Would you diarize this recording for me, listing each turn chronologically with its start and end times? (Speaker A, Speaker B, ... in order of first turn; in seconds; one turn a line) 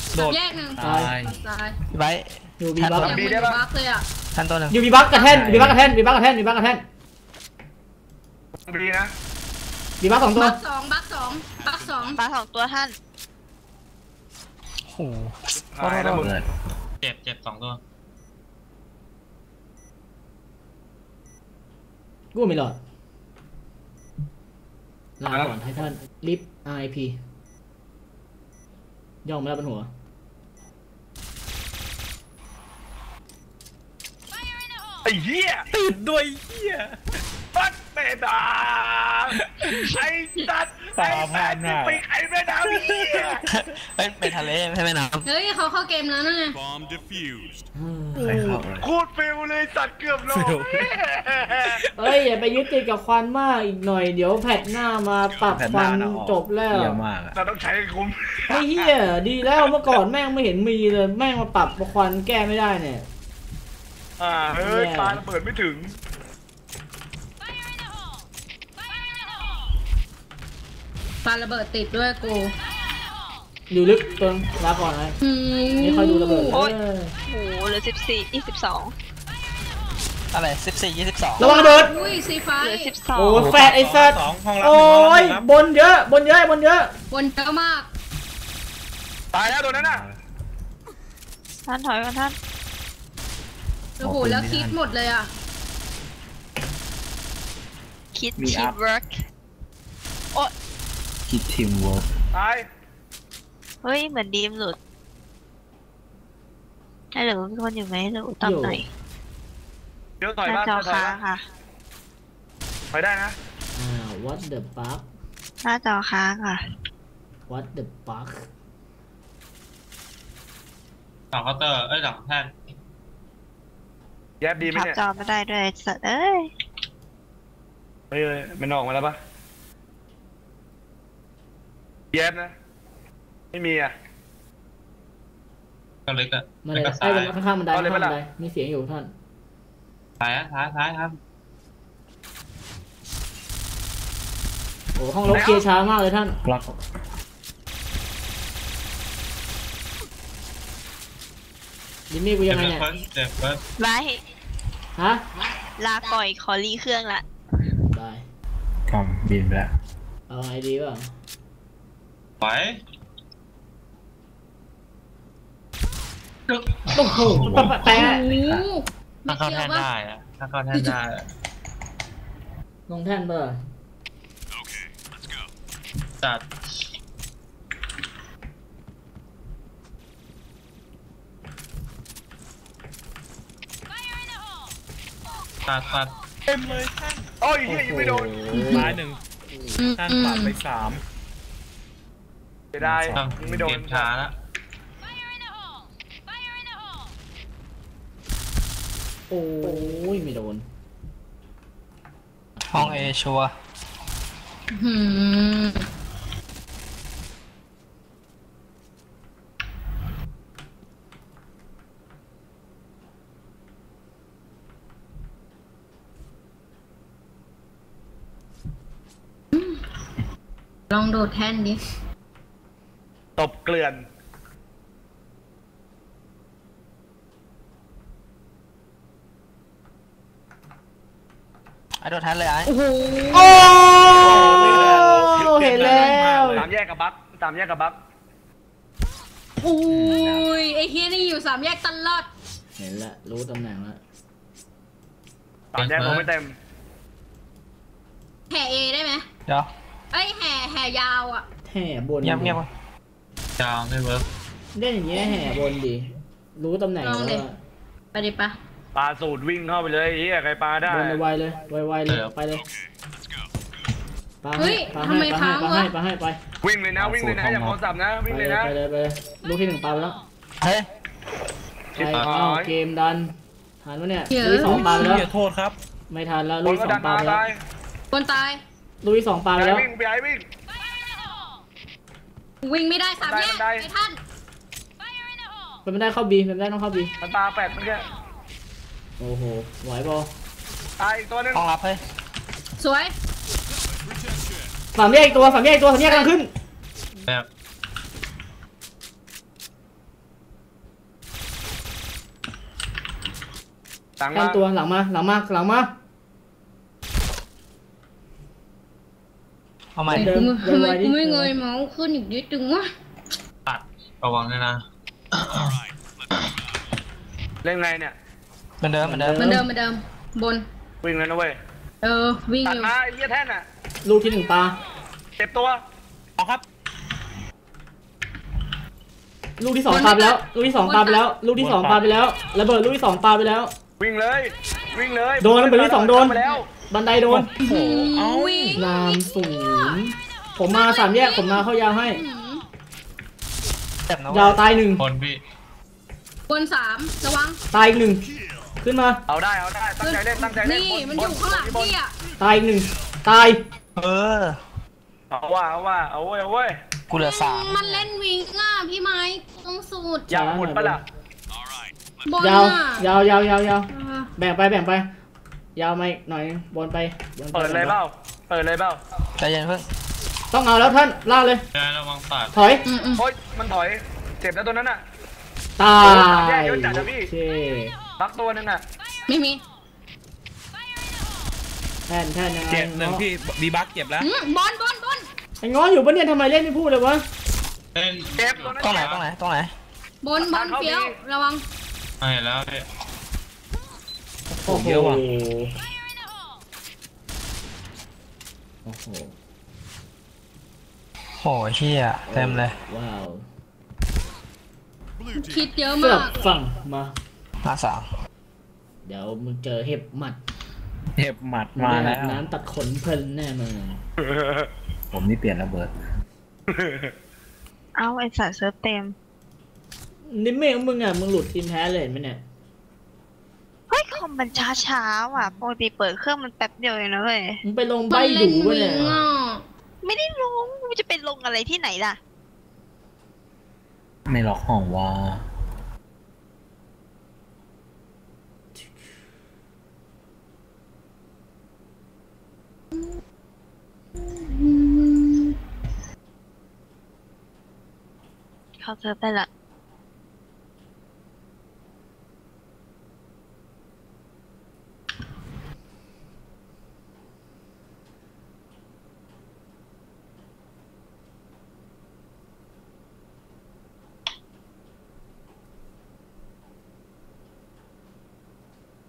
Speaker A: 0.1-1.4
Speaker B: 0.1-1.8
Speaker C: 0.8-1.1
Speaker D: 1.9-3.4
Speaker C: 2.6-3.2
Speaker E: 3.0-3.6
Speaker B: 3.0-4.1
Speaker D: 4.3-4.8
Speaker C: 4.7-6.8
Speaker A: 5.1-5.8
Speaker E: 8.7-9.1
Speaker C: 10.0-10.6
Speaker B: 10.3-12.2
Speaker F: 12.1-12.9
Speaker D: 14.9-16.3
Speaker E: 15.7-16.3
Speaker A: 16.1-16.5
Speaker G: 17.0-17.8
Speaker C: 22.3-22.8
Speaker C: 25.2-27.2
Speaker C: 29.2-29.9
Speaker E: 35.0-35.7
Speaker A: 35.7-37.0
Speaker E: 37.5-43.4
Speaker A: 39.4-39.9
Speaker A: 41.0-42.0
Speaker A: 42.6-43.6
Speaker D: 43.5-45.3
Speaker B: 45.2-46.6
Speaker C: 47.8-48.6
Speaker A: 48.1-48.9
Speaker E: 48.8-51.8
Speaker A: 50.3-50.9
Speaker A: 51.6-52.2
Speaker C: 52.0-57.0
Speaker A: 55.5-57.4
Speaker E: 57.4-58.9
Speaker C: 58.5-63.1
Speaker E: 64.2-66.0
Speaker C: 64.6-65.2
Speaker B: 71.2-72.5
Speaker C: 73.7-75.2
Speaker B: 75.2-76.6
Speaker C: 75.8-77.2
Speaker F: 77.3-78.9
Speaker D: 80.3-81.5
Speaker C: 81.4-82.0
Speaker B: 81.4-82.9
Speaker F: 82.6-83.5
Speaker C: 83.2-87.0
Speaker A: 83.4-85.5
Speaker B: 87.1-87.9
Speaker E: 89.3-90.0
Speaker A: 89.5-90.2
Speaker F: 91.7-92.3
Speaker B: 94.0-95.3
Speaker A: 94.0-94.9
Speaker F: 98.1-99.2
Speaker A: 98.4-98.8
Speaker A: 101.3-102.1
Speaker E: 102.3-102.7
Speaker F: 103.8-104.8
Speaker F: 107.1-108.9
Speaker C: 108.4-108.8
Speaker E: 110.2-111.2
Speaker F: 110.5-111.4
Speaker E: 112.9-113.4
Speaker C: 113.8-115.1
Speaker F: 115.6-116.6
Speaker C: 117.5-118.5
Speaker G: 121.3-122.5
Speaker E: 124.4-125.0
Speaker F: 124.6-126.5
Speaker E: 128.1-129.2
Speaker E: 132.1-132.5
Speaker E: 133.5-133.9
Speaker G: 136.1-137.3
Speaker C: 136.7-139.1
Speaker E: 137.7-138.2
Speaker G: 140.2-141.2
Speaker C: 145.0-146.4
Speaker E: 145.3-145.7
Speaker A: 146.4-146.8
Speaker C: 152.1-152.9
Speaker G: 152.5-153.6
Speaker F: 153.8-154.2
Speaker C: 155.0-155.2
Speaker F: 155.8-157.2
Speaker C: 157.9-158.2
Speaker A: 158.9-159.7
Speaker C: 160.3-161.1
Speaker G: 162.4-162.8
Speaker G: 166.5-167.8
Speaker C: 166.9-168.2
Speaker A: 167.2-168.6
Speaker B: 167.9-169.9
Speaker G: 169.3-171.3
Speaker C: 172.9-173.6
Speaker G: 176.2-176.5
Speaker G: 185.7-186.1
Speaker A: 186.5-187.3
Speaker E: 187.4-188.4
Speaker C: 187.7-189.0
Speaker B: 188.5-188.8
Speaker A: 188.5-189.2
Speaker B: 189.8-190.6
Speaker A: 190.0-191.0
Speaker E: 192.7-194.1
Speaker A: 192.8-193.7
Speaker G: 193.1-194.3
Speaker C: 199.3-200.7
Speaker D: 202.7-203.5
Speaker C: 202.8-203.0
Speaker B: 204.7-205.9
Speaker B: 219.5-219.8
Speaker B: 220.9-221.8
Speaker E: 223.4-224.1
Speaker D: 232.0-232.7
Speaker B: 232.7-234.0
Speaker C: 233.3-236.7
Speaker A: 234.1-236.7
Speaker E: 234.4-235.0
Speaker E: 236.5-238.0
Speaker B: 239.6-242.3
Speaker A: 239.9-240.5
Speaker C: 242.8-244.0
Speaker E: 245.7-246.6
Speaker G: 245.8-246.3
Speaker B: 248.5-249.3
Speaker B: 250.1-251.5
Speaker C: 251.7-252.6
Speaker D: 252.2-252.7
Speaker G: 253.6-254.3
Speaker C: 254.8-257.6
Speaker B: 257.0-257.4
Speaker B: 258.1-258.6
Speaker E: 258.9-261.2
Speaker C: 260.9-262.6
Speaker G: 262.1-262.3
Speaker C: 264.4-266.4
Speaker B: 264.6-265.9
Speaker E: 266.6-268.7
Speaker A: 267.0-267.8
Speaker C: 268.3-270.2
Speaker D: 270.6-270.9
Speaker C: 271.9-275.2
Speaker E: 272.0-272.7
Speaker G: 272.1-272.4
Speaker B: 274.3-275.3
Speaker A: 274.6-275.8
Speaker C: 276.1-277.4
Speaker E: 276.6-277.6
Speaker B: 278.1-278.6
Speaker C: 279.0-279.9
Speaker E: 279.6-280.4
Speaker B: 282.6-284.2
Speaker E: 283.2-283.9
Speaker C: 285.9-287.1
Speaker E: 287.2-288.1
Speaker C: 289.2-290.3
Speaker E: 291.0-291.7
Speaker D: 291.5-292.0
Speaker B: 292.8-293.1
Speaker C: 294.9-296.5
Speaker E: 304.2-304.6
Speaker C: 304.3-305.9
Speaker D: 310.0-310.4
Speaker C: 310.1-311.6
Speaker B: 310.1-312.9
Speaker G: 313.7-314.8
Speaker G: 315.3-315.8
Speaker E: 317.6-318.1
Speaker D: 318.8-319.6
Speaker C: 319.0-319.6
Speaker B: 319.4-320.6
Speaker E: 321.0-321.6
Speaker B: 322.0-322.9
Speaker E: 322.6-323.6
Speaker C: 324.1-324.8
Speaker E: 325.4-325.8
Speaker A: 326.4-326.6
Speaker C: 329.6-333.7
Speaker B: 329.9-331.2
Speaker A: 331.6-332.1
Speaker E: 334.0-336.7
Speaker C: 335.4-337.5
Speaker A: 337.3-338.8
Speaker B: 337.6-340.0
Speaker C: 338.8-342.2
Speaker B: 340.7-342.6
Speaker D: 344.1-344.6
Speaker C: 344.3-345.0
Speaker G: 345.0-345.4
Speaker B: 346.5-347.6
Speaker C: 347.7-348.2
Speaker C: 348.8-349.2
Speaker E: 349.3-351.9
Speaker B: 350.0-352.1
Speaker C: 352.4-353.6
Speaker D: 354.0-354.6
Speaker E: 355.3-356.8
Speaker D: 357.1-358.1
Speaker B: 357.2-360.3
Speaker E: 360.3-361.0
Speaker C: 360.3-361.0
Speaker B: 362.3-363.0
Speaker C: 362.4-365.1
Speaker B: 363.9-364.3
Speaker C: 365.8-368.0
Speaker E: 367.5-369.0
Speaker D: 369.4-369.9
Speaker C: 370.5-371.6
Speaker G: 371.7-372.6
Speaker C: 372.5-372.9
Speaker B: 372.9-373.2
Speaker E: 373.2-375.0
Speaker C: 375.8-378.0
Speaker E: 376.0-377.3
Speaker E: 378.2-378.8
Speaker B: 379.3-379.6
Speaker C: 382.1-383.2
Speaker A: 382.7-384.3
Speaker B: 384.2-385.3
Speaker C: 385.6-387.2
Speaker G: 387.9-389.1
Speaker E: 388.3-389.2
Speaker D: 388.8-389.7
Speaker B: 390.2-391.6
Speaker E: 390.4-391.1
Speaker G: 392.2-392.9
Speaker A: 394.6-395.2
Speaker C: 394.6-395.7
Speaker C: 398.9-399.3
Speaker D: 401.4-402.8
Speaker C: 402.3-403.5
Speaker B: 405.4-406.4
Speaker C: 406.0-407.2
Speaker D: 407.6-408.1
Speaker C: 409.0-410.4
Speaker A: 411.2-412.4
Speaker C: 411.8-414.0
Speaker E: 414.2-414.7
Speaker A: 415.1-415.9
Speaker E: 416.7-417.1
Speaker F: 418.0-419.1
Speaker C: 420.3-422.4
Speaker F: 423.9-427.6
Speaker C: 427.6-429.2
Speaker B: 428.1-429.6
Speaker F: 430.0-432.2
Speaker A: 434.3-435.5
Speaker B: 444.2-445.6
Speaker F: 448.8-449.5